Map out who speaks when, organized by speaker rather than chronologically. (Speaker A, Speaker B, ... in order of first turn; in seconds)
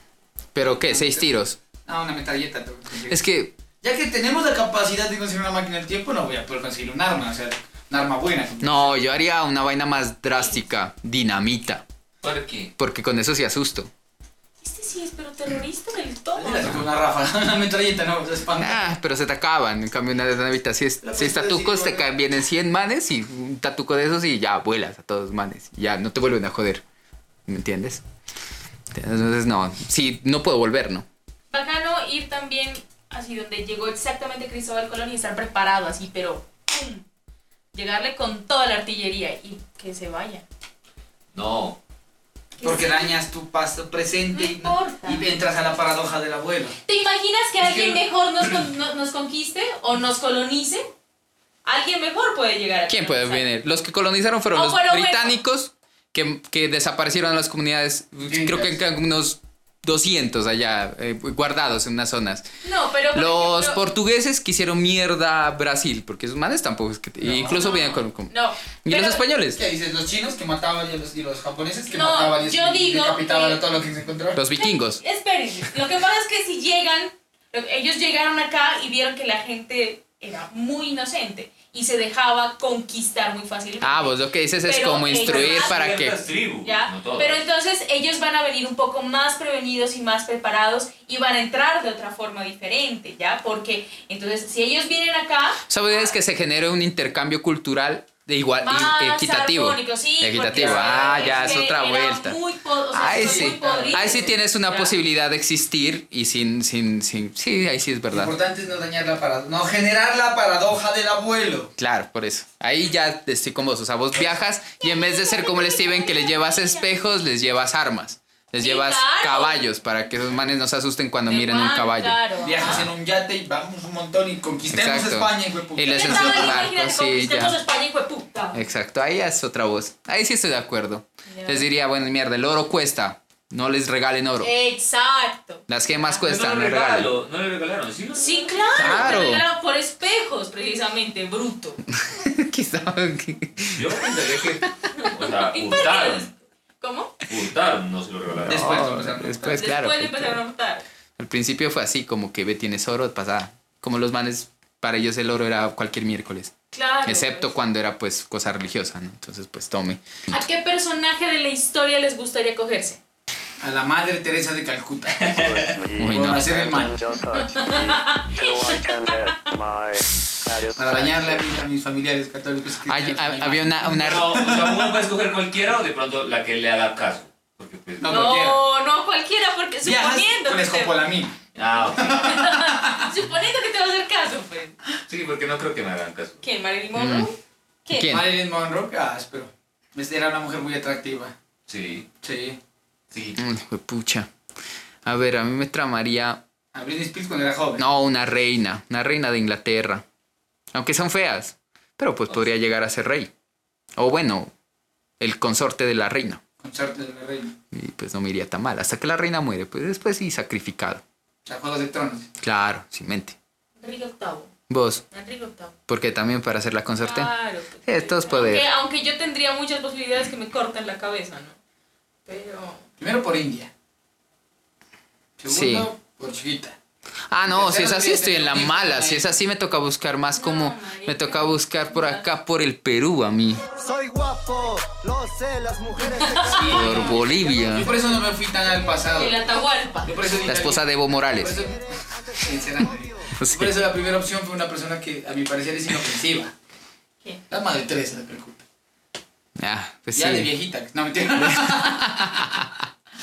Speaker A: 0.6-1.6, 3.1-3.5, 8.6-11.8, 12.8-13.9, 18.6-26.8, 27.5-28.0, 28.9-31.1, 52.9-62.5, 63.1-69.6, 74.3-75.0, 83.8-86.2, 95.7-102.4, 102.9-108.3, 111.8-122.8, 124.7-127.6, 128.5-134.5, 135.7-137.1, 138.8-139.4, 141.9-144.2, 148.5-150.4, 151.2-160.0, 166.0-166.8, 172.9-174.5, 186.9-187.3, 187.9-188.3, 193.4-194.3, 195.1-196.4, 197.8-200.1, 200.7-203.3, 204.0-204.5, 205.2-206.4, 207.7-211.0, 212.4-213.4, 214.7-215.0, 215.9-217.3, 217.8-218.7, 225.5-225.9, 227.3-233.6, 236.6-237.9, 240.3-241.6, 243.3-243.8, 249.6-250.5, 251.3-252.8
Speaker B: 0.6-1.3, 1.9-3.2, 3.8-9.0, 16.4-18.9, 21.0-22.1, 42.6-46.8, 58.2-58.8, 67.2-67.6, 69.5-74.4, 100.5-101.6, 103.0-104.3, 108.1-111.7, 122.4-126.6, 148.4-149.7, 163.6-167.0, 170.8-175.0, 178.0-178.6, 179.8-181.4, 181.9-183.1, 188.1-191.3, 192.2-192.6, 196.7-197.8, 206.6-207.6, 211.5-212.3, 223.0-223.7, 225.4-226.8, 227.5-229.3, 237.7-239.4, 240.0-241.8, 242.3-246.5, 247.5-248.6, 250.2-252.4
Speaker C: 12.2-12.7, 41.3-41.8, 47.6-48.0, 85.2-87.4, 136.1-139.3, 143.6-146.3, 147.3-148.8, 165.1-165.7, 173.9-178.2, 181.6-182.3, 185.1-186.4, 191.7-192.1, 193.1-193.4
Speaker D: 14.6-16.8, 31.5-37.0, 37.7-40.4, 42.6-43.2, 44.3-45.3, 46.9-50.9, 51.6-53.5, 54.5-55.4, 62.6-63.8, 67.6-69.2, 71.9-73.6, 74.6-85.8, 86.6-96.1, 98.6-104.9, 114.8-116.9, 118.6-119.6, 121.3-122.8, 125.9-128.6, 131.3-131.7, 134.4-135.6, 138.2-141.8, 144.9-147.2, 149.6-150.8, 156.7-157.5, 160.3-163.0, 167.3-169.4, 178.1-181.0, 182.1-184.8, 186.4-188.2, 213.8-214.5, 215.1-215.7, 217.0-221.6, 222.3-222.8, 230.4-232.2, 236.2-238.1, 239.0-240.2
Speaker E: 165.3-171.4
Speaker F: 233.7-238.2, 241.6-243.3